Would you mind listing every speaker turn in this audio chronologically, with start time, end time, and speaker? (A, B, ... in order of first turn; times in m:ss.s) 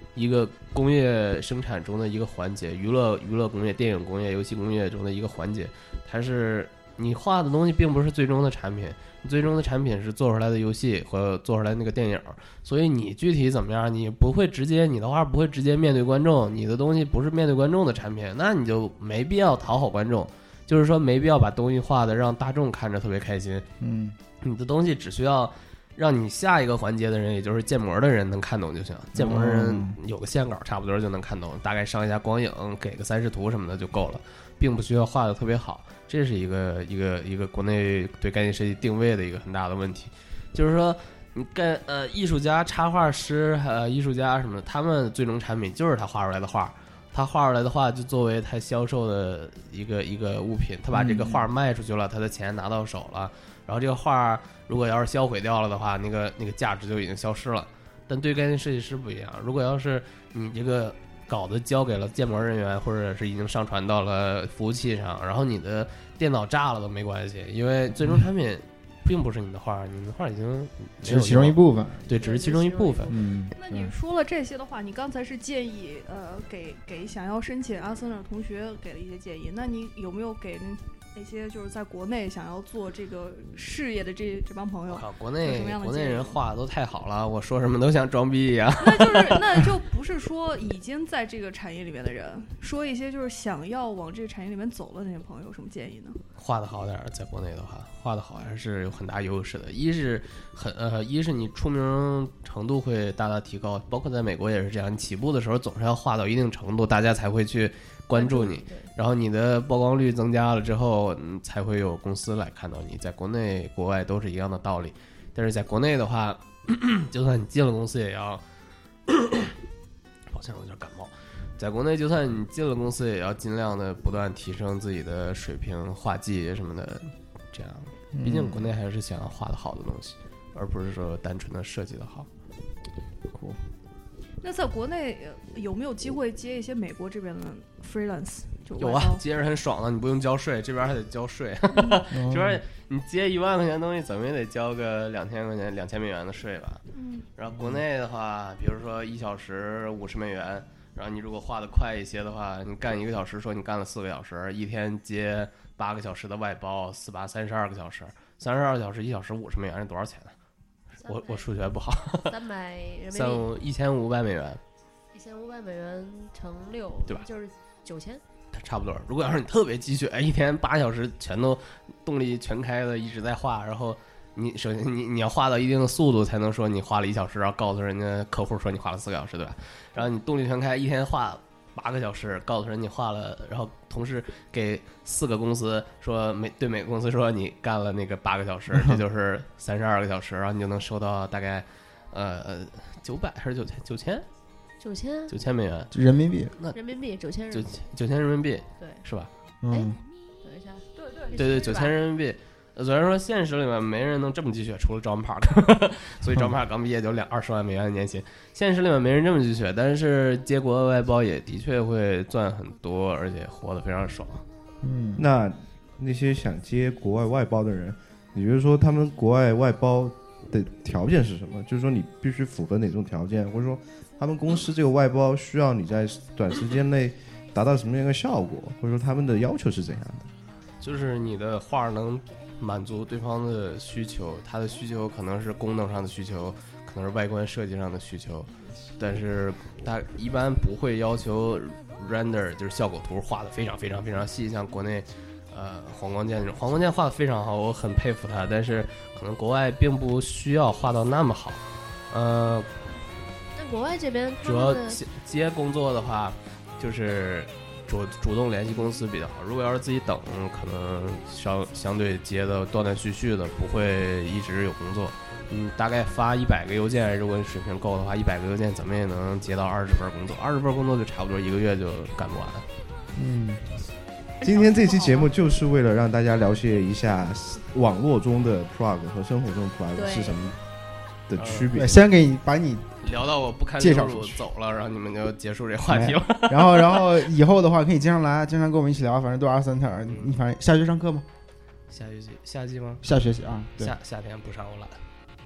0:00.2-0:23.7 A
0:23.8-0:24.2 B
0:24.4-1:13.2 A
0:29.2-0:30.0 B
0:50.9-0:51.5 B
1:11.0-1:12.0 B
1:12.1-1:13.2 C
1:13.1-1:13.9 B
1:13.6-1:26.4 D
1:24.9-1:29.7 A
1:28.8-1:36.2 D
1:36.4-1:58.4 A
1:48.2-1:48.9 C
1:59.1-1:59.6 A
2:00.3-2:12.3 A
2:08.2-2:08.7 B
2:14.4-2:19.2 D
2:18.8-2:26.8 A
2:21.7-2:22.0 D
2:22.1-2:22.6 B
2:26.9-2:27.3 D
2:27.4-2:40.4 A
2:41.0-2:41.5 C
2:41.1-2:42.3 A
2:42.3-2:43.5 C
2:43.1-2:44.6 A
2:45.1-2:48.2 C
2:48.5-3:14.3 A
3:14.8-3:15.4 C
3:15.3-3:15.9 A
3:15.9-3:16.5 B
3:16.7-3:17.7 C
3:17.5-3:19.3 A
3:19.6-3:20.0 B
3:19.7-3:21.9 C
3:21.0-3:21.5 D
3:21.4-3:34.4 A
3:34.8-3:35.2 B
3:35.2-3:50.3 E
3:50.8-4:12.7 A
4:13.6-4:15.0 C
4:14.4-4:32.7 A
4:33.2-4:33.8 B
4:34.4-4:35.3 D
4:34.4-4:40.6 E
4:40.0-4:40.4 C
4:41.3-4:42.0 E
4:41.4-4:41.8 A
4:41.8-4:42.9 B
4:43.0-4:47.3 A
4:43.8-4:44.4 B
4:45.9-4:51.2 B
4:50.0-4:50.4 A
4:51.9-4:53.0 A
4:53.0-4:53.9 B
4:53.8-4:55.0 A